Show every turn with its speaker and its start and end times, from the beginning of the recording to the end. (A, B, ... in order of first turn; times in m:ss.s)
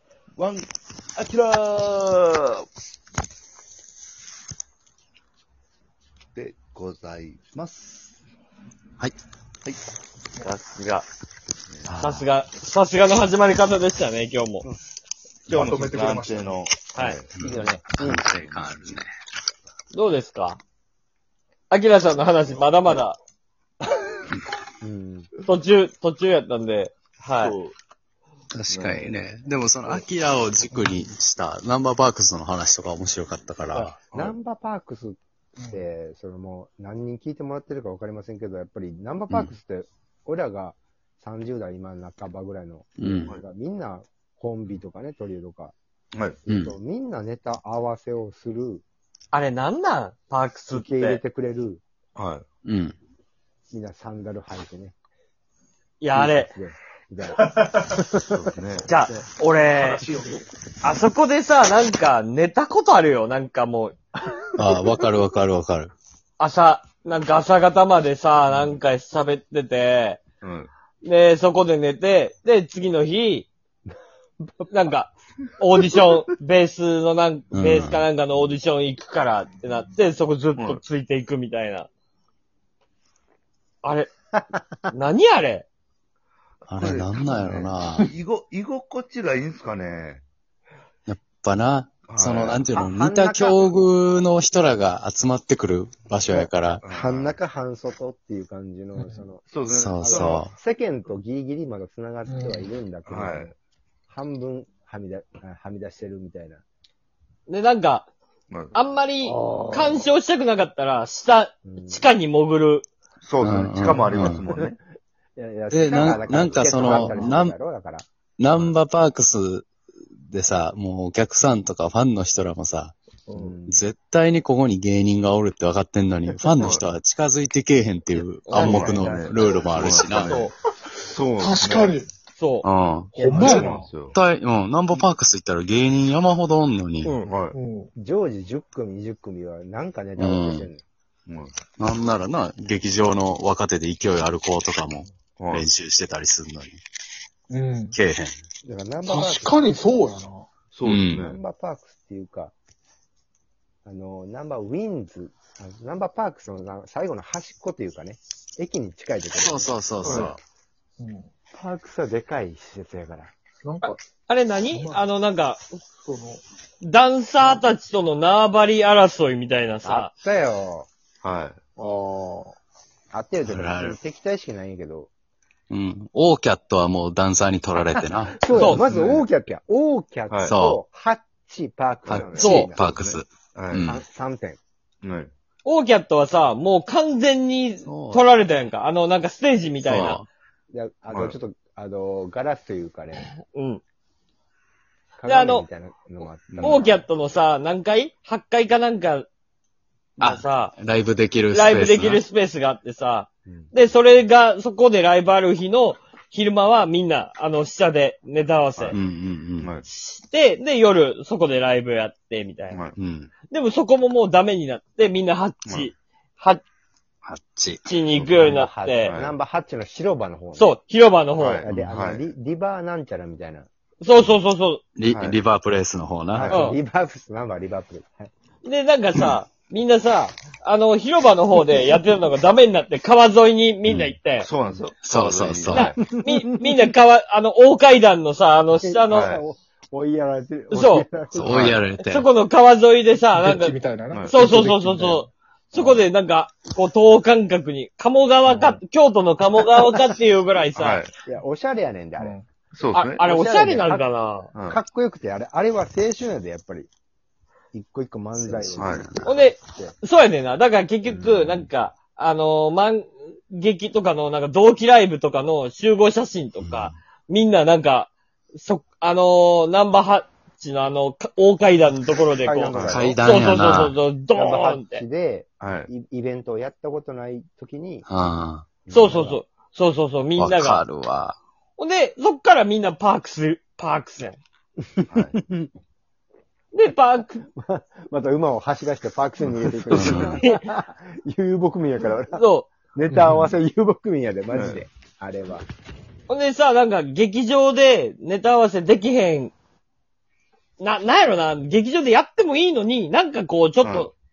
0:00.3-0:02.7 A
0:06.3-0:08.1 A
0:10.4-0:11.1 B
0:11.7-0:12.0 A
0:11.8-0:12.3 C
0:12.0-0:14.6 B
0:15.5-0:17.3 A
0:15.5-0:16.5 D
0:17.4-0:18.2 E
0:17.4-0:19.1 C
0:19.9-0:20.6 B
0:21.7-0:23.2 B
0:24.8-0:25.3 E
0:25.4-0:27.6 B
0:27.3-0:27.8 A
0:28.5-0:34.0 C
0:28.7-0:29.2 A
0:34.1-0:34.4 A
0:34.1-0:35.2 E
0:35.7-0:45.8 E
0:43.0-0:43.4 C
0:46.1-0:46.4 A
0:46.4-0:48.8 E
0:46.5-0:46.8 C
0:49.3-0:51.2 B
0:50.7-0:51.8 E
0:52.2-0:52.4 A
0:52.7-0:53.0 C
0:53.7-0:55.0 E
0:56.0-0:56.5 B
0:56.1-0:59.2 E
0:58.3-0:58.9 A
0:58.9-1:00.0 B
0:59.9-1:00.3 D
1:00.8-1:04.0 B
1:04.6-1:05.9 C
1:06.4-1:10.2 B
1:08.5-1:08.8 A
1:10.4-1:10.7 A
1:11.0-1:13.5 B
1:14.4-1:14.9 E
1:14.7-1:21.9 B
1:17.5-1:18.1 C
1:20.6-1:20.8 A
1:23.8-1:24.1 B
1:24.9-1:25.7 B
1:26.6-1:30.2 A
1:26.7-1:28.1 C
1:31.1-1:36.8 C
1:32.0-1:32.7 A
1:32.7-1:33.8 E
1:36.3-1:39.5 E
1:36.8-1:37.4 A
1:39.4-1:40.4 A
1:39.7-1:40.5 C
1:40.0-1:43.5 E
1:43.1-1:43.6 A
1:44.1-1:46.6 E
1:47.5-1:48.1 B
1:48.5-1:48.8 A
1:48.7-1:52.9 B
1:49.2-1:50.1 D
1:51.6-1:52.1 E
1:53.2-1:54.8 A
1:53.4-1:54.4 C
1:54.2-1:54.8 E
1:55.4-1:58.1 E
1:55.7-1:57.5 C
1:56.8-1:57.0 A
1:58.4-1:59.7 C
1:58.5-1:58.8 A
2:00.2-2:03.0 C
2:03.3-2:03.8 E
2:03.7-2:10.4 C
2:06.6-2:06.9 A
2:08.5-2:09.0 B
2:08.6-2:12.0 A
2:10.1-2:10.5 B
2:11.4-2:12.0 D
2:12.4-2:12.7 B
2:12.6-2:17.1 C
2:13.2-2:13.6 E
2:13.2-2:13.8 D
2:13.4-2:14.2 A
2:17.0-2:17.3 B
2:17.2-2:17.6 A
2:17.6-2:17.9 D
2:18.0-2:20.8 E
2:20.2-2:20.7 C
2:21.3-2:21.5 A
2:21.8-2:26.8 C
2:25.4-2:25.7 A
2:27.5-2:28.0 D
2:27.9-2:28.4 C
2:28.6-2:29.6 E
2:29.0-2:30.5 D
2:30.7-2:31.4 A
2:30.8-2:31.2 C
2:31.1-2:32.5 E
2:33.8-2:40.3 E
2:39.4-2:40.4 C
2:41.0-2:41.3 D
2:41.5-2:43.3 E
2:43.6-2:44.0 D
2:43.8-2:45.6 B
2:44.7-2:45.0 D
2:46.0-2:46.4 D
2:46.8-2:50.1 B
2:49.8-2:50.9 E
2:51.2-2:51.6 A
2:51.8-2:52.5 D
2:53.1-2:55.1 E
2:53.4-2:54.0 C
2:55.7-2:58.4 C
2:58.4-3:03.2 E
2:58.5-2:58.8 B
2:58.7-2:59.2 A
3:00.3-3:00.5 A
3:00.4-3:00.8 C
3:02.1-3:04.0 C
3:02.4-3:02.7 B
3:03.5-3:03.9 A
3:03.8-3:04.6 E
3:05.0-3:05.3 A
3:05.6-3:10.2 B
3:07.8-3:08.2 C
3:09.9-3:10.2 A
3:09.9-3:10.2 C
3:10.7-3:13.3 E
3:11.1-3:11.3 A
3:13.2-3:13.8 B
3:15.2-3:17.0 E
3:15.2-3:15.7 B
3:16.5-3:16.8 A
3:16.6-3:19.3 B
3:20.2-3:20.7 B
3:20.2-3:22.2 C
3:21.5-3:29.0 B
3:23.5-3:23.7 E
3:28.9-3:29.7 C
3:29.8-3:32.8 B
3:32.7-3:33.0 A
3:33.0-3:33.3 C
3:33.5-3:36.6 B
3:35.6-3:35.9 A
3:37.2-3:37.8 C
3:37.8-3:39.2 B
3:38.1-3:39.4 A
3:38.4-3:40.8 E
3:40.6-3:41.6 B
3:41.4-3:42.3 A
3:41.6-3:43.7 E
3:44.0-3:44.8 B
3:45.0-3:46.6 C
3:45.1-3:45.4 A
3:46.3-3:48.3 E
3:46.5-3:46.8 B
3:48.6-3:54.5 B
3:53.8-3:54.2 C
3:54.4-3:56.0 A
3:55.0-3:55.9 C
3:55.7-3:59.3 B
3:56.2-3:56.8 E
3:58.8-4:01.8 E
3:59.1-3:59.4 A
4:00.7-4:01.0 B
4:01.3-4:02.3 C
4:01.5-4:01.8 A
4:02.0-4:03.8 B
4:03.4-4:05.2 D
4:04.1-4:04.4 A
4:04.3-4:11.0 B
4:05.7-4:06.1 E
4:10.7-4:11.1 A
4:11.2-4:12.4 E
4:12.7-4:13.2 A
4:12.9-4:14.5 B
4:13.2-4:14.0 E
4:14.5-4:14.8 A
4:14.7-4:16.9 E
4:17.7-4:20.0 E
4:18.4-4:19.3 C
4:18.7-4:19.1 A
4:19.2-4:35.0 B
4:21.1-4:21.7 E
4:26.6-4:26.9 C
4:32.4-4:33.2 E
4:32.7-4:33.1 A
4:32.9-4:34.0 C
4:34.3-4:38.1 E
4:35.6-4:35.9 A
4:38.1-4:38.7 C
4:38.8-4:39.4 E
4:38.9-4:40.8 B
4:40.4-4:41.4 C
4:41.8-4:44.4 B
4:45.0-4:45.7 E
4:45.1-4:45.4 A
4:46.7-4:47.4 B
4:47.4-4:55.6 E
4:49.7-4:50.2 A
4:49.9-4:50.4 C
4:50.2-4:50.6 B
4:52.2-4:52.7 B
4:53.2-4:53.5 D
4:54.5-4:54.8 A
4:56.3-4:59.5 B
5:00.8-5:04.1 B
5:03.8-5:04.1 A